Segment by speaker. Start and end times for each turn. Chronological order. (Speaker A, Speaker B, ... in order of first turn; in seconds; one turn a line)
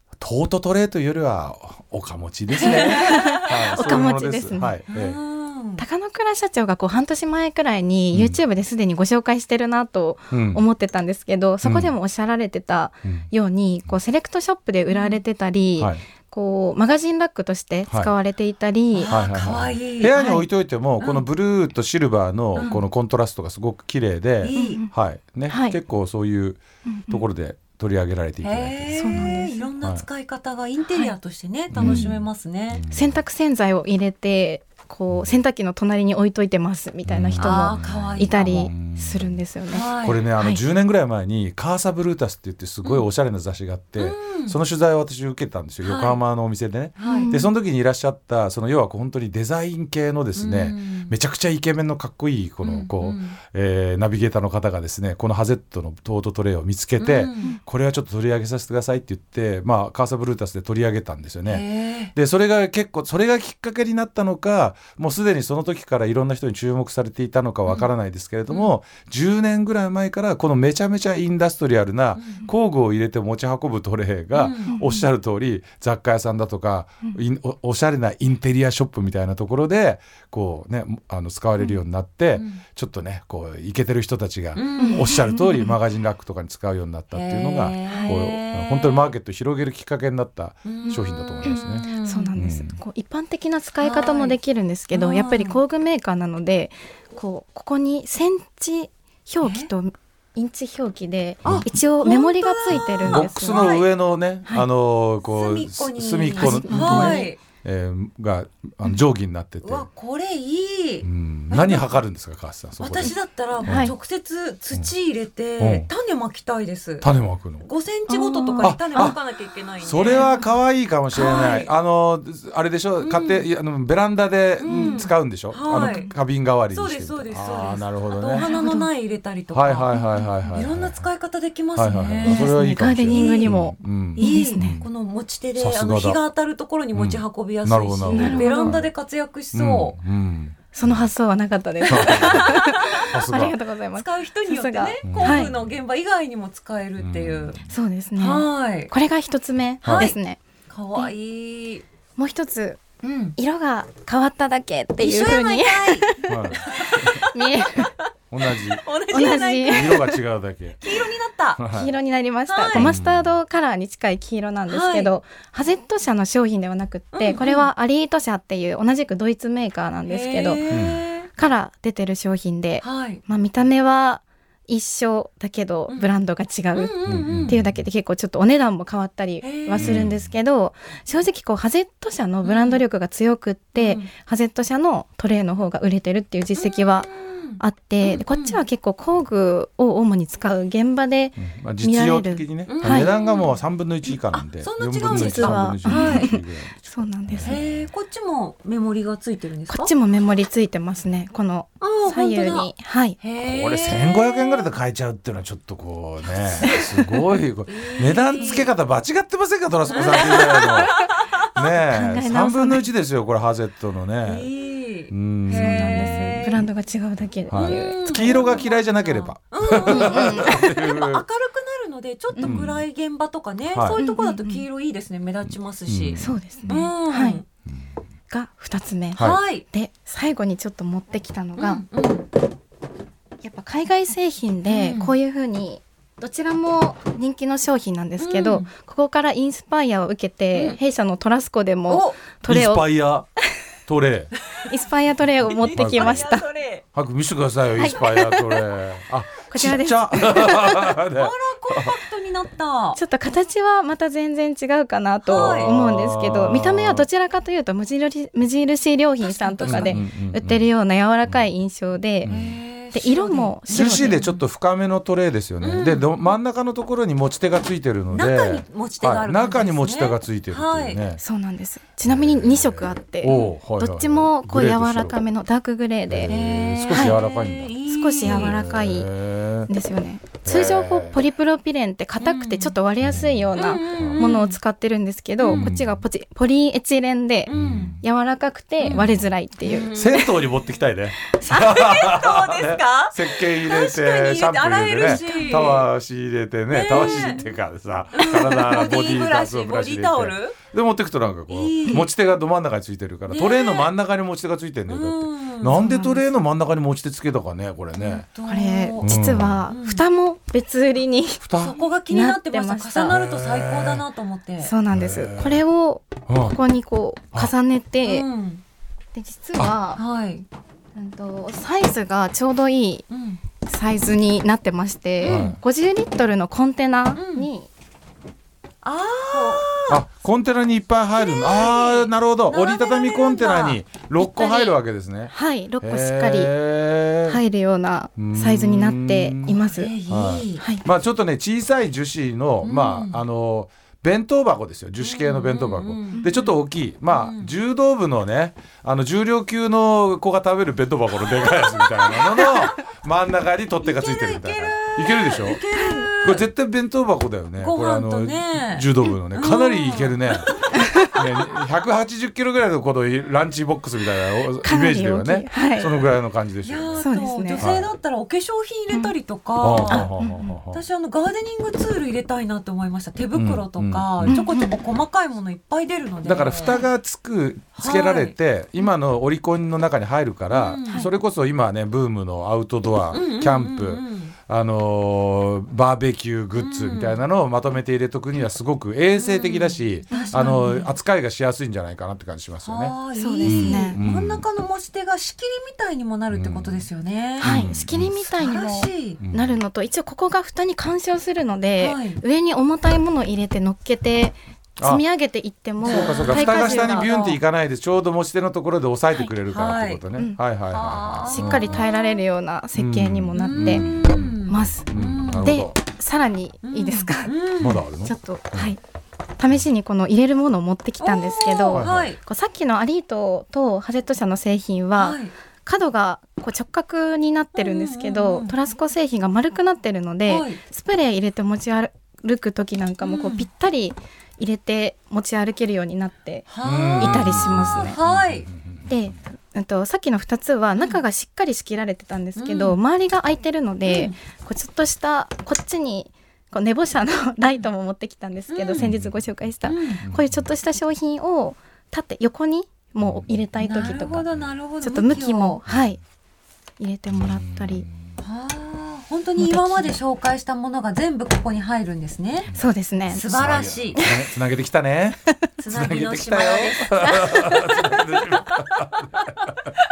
Speaker A: 0.2-5.2
Speaker B: 2.6-4.8
Speaker C: 2.6-3.8
Speaker C: 4.9-5.8
Speaker B: 5.8-19.2
Speaker A: 8.1-8.4
Speaker A: 10.3-10.6
Speaker A: 11.6-11.9
Speaker C: 14.9-15.2
Speaker C: 18.9-20.2
Speaker A: 19.1-30.1
Speaker B: 20.2-20.4
Speaker C: 21.0-21.2
Speaker C: 22.6-22.8
Speaker C: 24.4-24.8
Speaker B: 24.5-24.9
Speaker B: 25.5-25.8
Speaker B: 26.9-27.2
Speaker C: 28.4-32.9
Speaker B: 28.9-29.7
Speaker B: 30.9-31.1
Speaker A: 31.7-32.2
Speaker B: 31.8-32.1
Speaker A: 32.7-33.2
Speaker B: 32.9-40.6
Speaker A: 37.1-39.4
Speaker C: 37.4-38.5
Speaker C: 39.7-40.2
Speaker A: 40.0-92.8
Speaker C: 44.0-44.6
Speaker C: 45.8-46.2
Speaker C: 47.0-47.3
Speaker B: 47.0-47.5
Speaker C: 50.4-51.1
Speaker C: 52.6-53.4
Speaker C: 57.0-57.5
Speaker C: 61.5-62.1
Speaker C: 72.2-72.5
Speaker C: 74.3-74.8
Speaker B: 74.7-75.1
Speaker C: 82.3-82.6
Speaker C: 84.5-85.2
Speaker B: 84.8-85.8
Speaker C: 87.1-89.1
Speaker B: 87.9-88.2
Speaker C: 90.7-92.3
Speaker B: 90.8-103.7
Speaker C: 93.8-94.4
Speaker C: 94.9-95.6
Speaker C: 99.4-99.7
Speaker C: 101.5-103.9
Speaker A: 103.0-109.9
Speaker C: 105.2-107.4
Speaker B: 106.4-107.3
Speaker C: 109.6-112.0
Speaker A: 111.0-113.9
Speaker C: 112.8-117.1
Speaker B: 113.6-113.9
Speaker A: 115.6-115.9
Speaker A: 117.0-117.7
Speaker C: 117.6-120.4
Speaker B: 118.1-119.2
Speaker A: 118.6-119.2
Speaker A: 119.8-128.5
Speaker B: 120.2-120.5
Speaker B: 121.1-121.7
Speaker C: 121.1-121.7
Speaker C: 123.0-123.5
Speaker C: 124.6-126.1
Speaker B: 124.7-125.1
Speaker B: 125.7-126.1
Speaker C: 126.7-130.0
Speaker B: 128.3-128.9
Speaker A: 129.5-131.1
Speaker B: 129.9-130.6
Speaker C: 130.5-133.6
Speaker A: 131.8-134.9
Speaker B: 132.2-134.8
Speaker C: 134.2-140.0
Speaker A: 135.6-136.2
Speaker A: 136.9-138.9
Speaker B: 138.1-138.8
Speaker A: 139.5-141.1
Speaker B: 140.7-145.5
Speaker C: 141.8-147.6
Speaker A: 141.9-143.6
Speaker A: 145.0-145.7
Speaker A: 147.0-147.7
Speaker B: 147.7-150.4
Speaker C: 148.2-148.9
Speaker A: 149.8-150.1
Speaker C: 149.9-150.2
Speaker C: 150.7-151.8
Speaker B: 152.2-152.8
Speaker C: 153.0-153.4
Speaker B: 153.4-157.9
Speaker C: 155.0-157.9
Speaker A: 156.3-157.2
Speaker A: 158.3-160.8
Speaker C: 158.4-160.2
Speaker B: 159.1-160.2
Speaker C: 160.8-161.6
Speaker A: 161.6-161.9
Speaker B: 161.7-170.8
Speaker C: 162.5-162.9
Speaker A: 162.7-163.4
Speaker C: 164.7-165.1
Speaker C: 167.1-167.7
Speaker C: 170.1-171.3
Speaker A: 170.7-171.0
Speaker B: 171.3-193.1
Speaker C: 172.8-173.2
Speaker C: 175.9-176.1
Speaker C: 176.7-177.6
Speaker A: 177.1-177.8
Speaker C: 179.4-180.0
Speaker A: 179.8-180.3
Speaker C: 182.4-182.8
Speaker C: 183.8-184.1
Speaker C: 186.6-188.6
Speaker A: 191.4-197.9
Speaker C: 192.7-196.3
Speaker B: 195.1-197.6
Speaker C: 197.4-199.9
Speaker B: 199.7-203.2
Speaker C: 201.8-204.7
Speaker A: 203.4-214.5
Speaker C: 206.2-208.7
Speaker B: 208.4-208.7
Speaker C: 209.9-211.1
Speaker B: 210.1-212.9
Speaker C: 214.2-216.6
Speaker A: 215.1-216.7
Speaker B: 215.5-218.7
Speaker A: 217.5-221.2
Speaker C: 217.5-227.4
Speaker B: 219.8-220.9
Speaker B: 222.3-222.6
Speaker A: 222.4-222.8
Speaker A: 223.7-224.0
Speaker B: 224.0-224.6
Speaker A: 225.5-226.4
Speaker B: 226.2-227.4
Speaker B: 228.3-231.8
Speaker C: 229.2-229.7
Speaker C: 231.6-232.3
Speaker B: 233.4-242.9
Speaker C: 234.7-235.1
Speaker C: 238.2-238.7
Speaker C: 241.9-242.2
Speaker A: 242.5-243.3
Speaker A: 243.9-244.3
Speaker B: 244.7-246.5
Speaker C: 245.4-246.8
Speaker A: 245.7-246.3
Speaker A: 246.9-252.0
Speaker B: 247.8-248.6
Speaker B: 249.5-250.9
Speaker C: 251.2-253.0
Speaker B: 252.9-262.3
Speaker C: 255.2-255.7
Speaker A: 255.3-257.1
Speaker C: 259.2-260.0
Speaker A: 259.6-260.6
Speaker A: 262.2-262.6
Speaker C: 262.3-264.4
Speaker B: 262.9-264.2
Speaker A: 263.7-271.2
Speaker C: 265.6-266.4
Speaker C: 268.1-271.0
Speaker B: 271.2-277.2
Speaker A: 272.1-275.2
Speaker C: 273.3-273.6
Speaker A: 276.1-279.7
Speaker C: 276.3-278.6
Speaker B: 277.9-279.1
Speaker B: 279.7-290.0
Speaker A: 280.4-281.2
Speaker C: 282.2-282.8
Speaker A: 283.0-284.3
Speaker C: 283.6-284.6
Speaker C: 285.4-285.7
Speaker A: 285.5-286.0
Speaker C: 287.5-287.9
Speaker A: 287.5-288.0
Speaker C: 288.8-290.9
Speaker A: 288.9-289.2
Speaker A: 289.9-308.3
Speaker B: 291.4-291.7
Speaker C: 291.5-295.9
Speaker B: 295.1-295.8
Speaker C: 296.7-297.5
Speaker C: 298.1-300.6
Speaker C: 301.5-302.1
Speaker C: 303.3-303.9
Speaker C: 304.9-306.2
Speaker B: 305.8-306.2
Speaker C: 307.9-309.1
Speaker B: 308.4-311.5
Speaker A: 309.0-309.6
Speaker C: 309.7-310.0
Speaker A: 311.4-311.8
Speaker C: 311.6-314.7
Speaker B: 312.1-313.2
Speaker A: 313.1-314.0
Speaker B: 314.6-318.3
Speaker A: 314.9-315.6
Speaker A: 316.3-316.6
Speaker C: 318.0-318.6
Speaker B: 319.1-320.0
Speaker C: 320.0-320.5
Speaker B: 320.9-323.1
Speaker C: 323.1-323.4
Speaker B: 323.7-327.7
Speaker C: 325.2-325.6
Speaker A: 325.2-325.6
Speaker C: 327.2-327.5
Speaker C: 328.8-330.0
Speaker B: 329.3-329.7
Speaker A: 329.9-337.4
Speaker C: 331.2-333.8
Speaker B: 334.2-334.8
Speaker B: 335.3-336.5
Speaker B: 337.3-339.9
Speaker A: 338.2-355.6
Speaker C: 339.8-340.6
Speaker B: 340.6-340.8
Speaker C: 342.6-343.2
Speaker C: 345.0-346.6
Speaker C: 347.1-347.5
Speaker C: 351.2-352.7
Speaker C: 353.8-356.5
Speaker B: 355.7-356.1
Speaker A: 356.2-360.5
Speaker C: 357.6-360.8
Speaker B: 360.8-361.1
Speaker A: 361.1-367.1
Speaker B: 364.6-366.0
Speaker C: 366.6-370.1
Speaker B: 367.0-367.7
Speaker A: 367.6-367.9
Speaker A: 369.6-370.8
Speaker B: 369.9-370.5
Speaker C: 370.7-376.9
Speaker A: 373.4-374.4
Speaker B: 374.3-374.8
Speaker A: 376.2-394.4
Speaker C: 377.8-378.4
Speaker C: 380.5-381.1
Speaker C: 383.1-384.3
Speaker C: 386.6-387.2
Speaker C: 389.1-390.9
Speaker B: 390.1-390.6
Speaker C: 392.6-397.6
Speaker B: 393.2-394.0
Speaker A: 396.3-396.9
Speaker A: 397.4-398.3
Speaker B: 397.4-407.1
Speaker C: 398.4-399.2
Speaker A: 399.2-399.6
Speaker C: 401.8-402.2
Speaker A: 404.8-405.0
Speaker C: 405.8-407.4
Speaker A: 405.8-411.9
Speaker C: 409.5-410.0
Speaker C: 410.7-412.2
Speaker B: 411.3-414.9
Speaker A: 412.8-415.8
Speaker C: 413.4-415.6
Speaker B: 415.4-417.3
Speaker C: 416.6-417.9
Speaker A: 417.6-418.7
Speaker B: 418.0-418.8
Speaker B: 419.4-438.0
Speaker C: 421.0-422.2
Speaker A: 421.7-422.1
Speaker C: 425.0-425.3
Speaker C: 427.6-428.5
Speaker C: 430.3-430.6
Speaker C: 433.0-433.5
Speaker C: 436.5-438.5
Speaker A: 436.6-439.1
Speaker B: 438.9-454.3
Speaker C: 442.4-442.8
Speaker C: 443.9-444.2
Speaker C: 448.5-448.9
Speaker A: 448.8-449.2
Speaker C: 449.6-450.0
Speaker A: 450.0-450.5
Speaker A: 453.0-454.5
Speaker C: 453.6-455.6
Speaker B: 454.8-456.0
Speaker A: 455.1-455.8
Speaker B: 456.8-457.9
Speaker A: 457.1-458.2
Speaker C: 458.2-462.5
Speaker B: 459.4-460.0
Speaker B: 462.5-463.3
Speaker C: 463.1-464.0
Speaker A: 463.2-469.7
Speaker B: 464.0-464.3
Speaker C: 465.6-467.3
Speaker B: 467.0-468.0